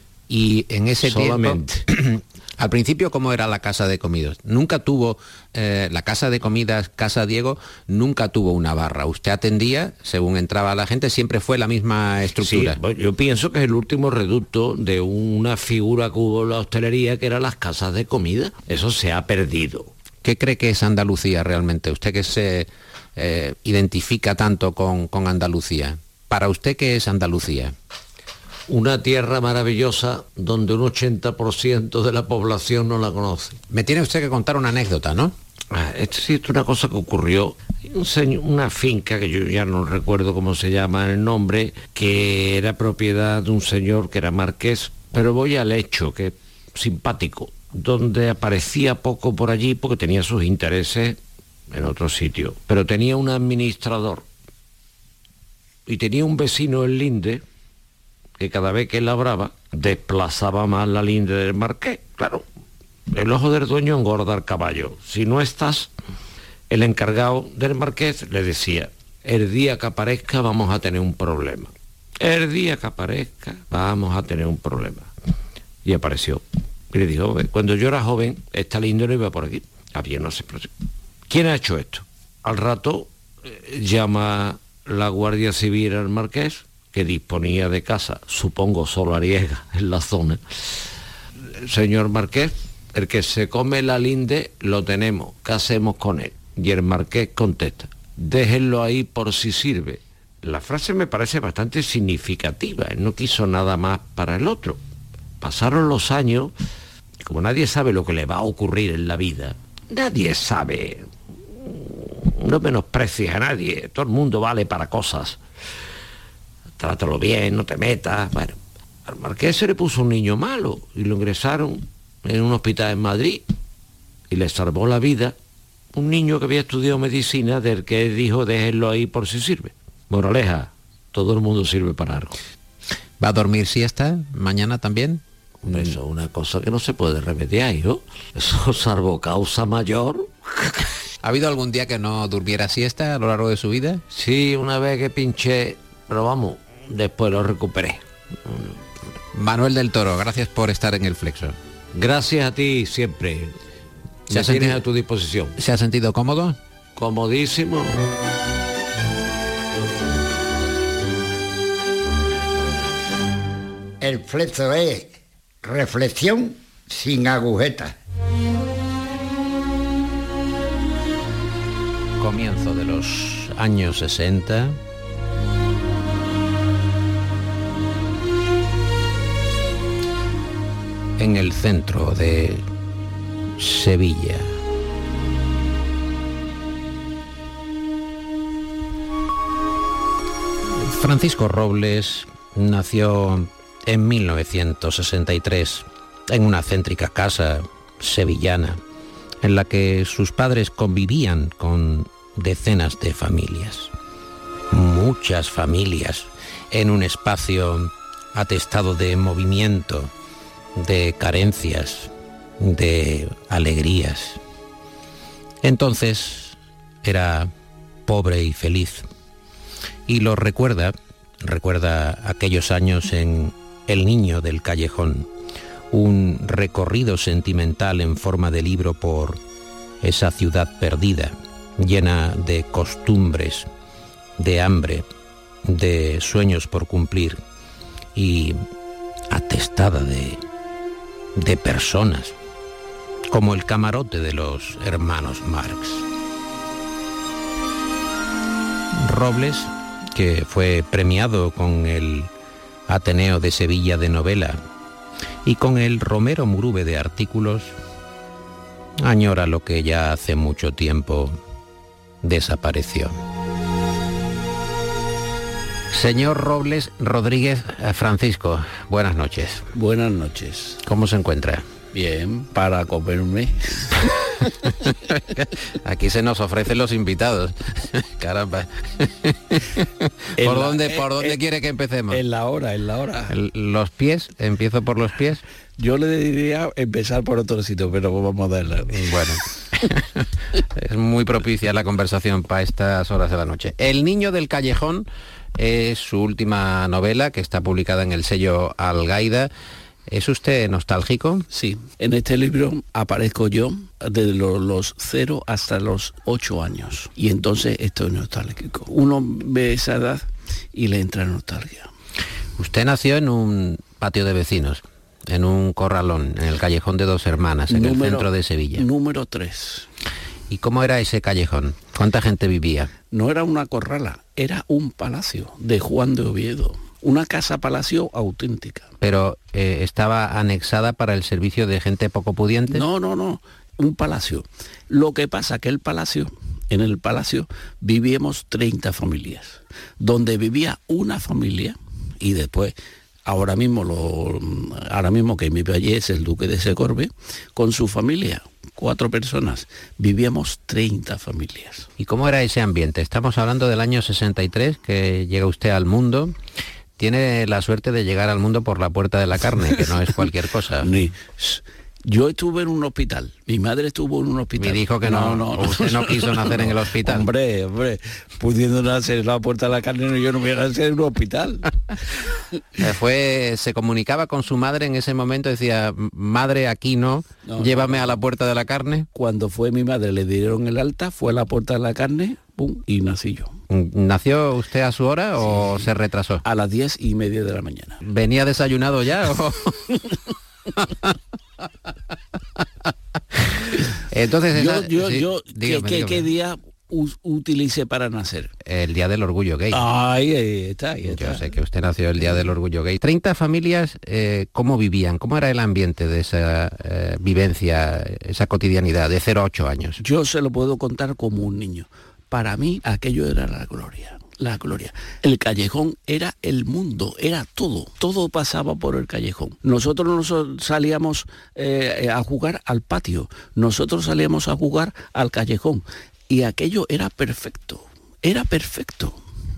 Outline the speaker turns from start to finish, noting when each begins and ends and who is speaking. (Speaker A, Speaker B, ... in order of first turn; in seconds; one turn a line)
Speaker A: 0.3-12.8
Speaker B: 1.0-1.9
Speaker B: 12.4-19.9
Speaker A: 20.2-27.7
Speaker B: 28.7-33.6
Speaker A: 33.7-35.3
Speaker B: 35.7-51.2
Speaker B: 51.7-54.2
Speaker B: 55.9-57.4
Speaker B: 58.4-62.4
Speaker B: 63.1-65.9
Speaker B: 66.7-75.1
Speaker B: 75.8-80.7
Speaker B: 81.3-90.8
Speaker B: 91.6-104.8
Speaker B: 105.4-106.5
Speaker B: 107.2-111.0
Speaker B: 111.6-115.4
Speaker B: 116.8-123.4
Speaker B: 124.3-125.3
Speaker B: 125.9-132.3
Speaker A: 133.2-136.0
Speaker B: 135.7-140.8
Speaker A: 141.2-144.0
Speaker B: 144.1-148.8
Speaker A: 149.3-151.6
Speaker B: 151.9-153.5
Speaker B: 154.3-155.5
Speaker A: 154.3-154.8
Speaker A: 155.6-156.6
Speaker B: 156.9-158.0
Speaker C: 164.0-167.9
Speaker A: 172.2-174.8
Speaker A: 181.2-182.6
Speaker A: 183.6-184.6
Speaker A: 190.8-198.8
Speaker A: 199.4-203.9
Speaker A: 204.7-210.1
Speaker A: 210.8-214.4
Speaker A: 215.6-217.5
Speaker A: 218.1-219.1
Speaker A: 220.1-225.3
Speaker A: 225.9-229.4
Speaker A: 230.0-233.7
Speaker A: 234.4-235.1
Speaker A: 235.6-237.4
Speaker A: 238.1-238.6
Speaker A: 239.3-240.4
Speaker A: 241.3-242.3
Speaker A: 243.3-246.1
Speaker A: 248.9-252.3
Speaker A: 252.9-254.6
Speaker A: 255.4-257.7
Speaker A: 259.0-261.4
Speaker A: 262.2-263.2
Speaker A: 265.9-269.7
Speaker D: 269.7-270.8
Speaker A: 270.8-271.6
Speaker D: 271.9-273.9
Speaker A: 275.1-282.2
Speaker D: 280.4-281.4
Speaker D: 282.1-283.3
Speaker A: 283.3-285.4
Speaker D: 285.8-289.0
Speaker A: 288.9-299.5
Speaker A: 300.1-301.4
Speaker D: 301.5-311.9
Speaker A: 312.6-318.9
Speaker D: 317.7-319.9
Speaker A: 320.5-322.9
Speaker D: 323.1-328.9
Speaker A: 329.0-332.9
Speaker D: 332.7-342.7
Speaker D: 343.2-351.9
Speaker A: 352.0-356.3
Speaker A: 357.0-360.9
Speaker D: 360.8-371.7
Speaker A: 364.6-367.3
Speaker A: 372.8-379.1
Speaker D: 377.4-378.1
Speaker D: 379.1-383.5
Speaker A: 383.7-386.4
Speaker D: 386.4-388.0
Speaker A: 388.0-389.8
Speaker A: 390.8-391.1
Speaker A: 394.1-396.3
Speaker D: 394.5-398.5
Speaker A: 398.6-399.8
Speaker D: 399.7-401.5
Speaker A: 401.1-410.0
Speaker D: 410.0-429.2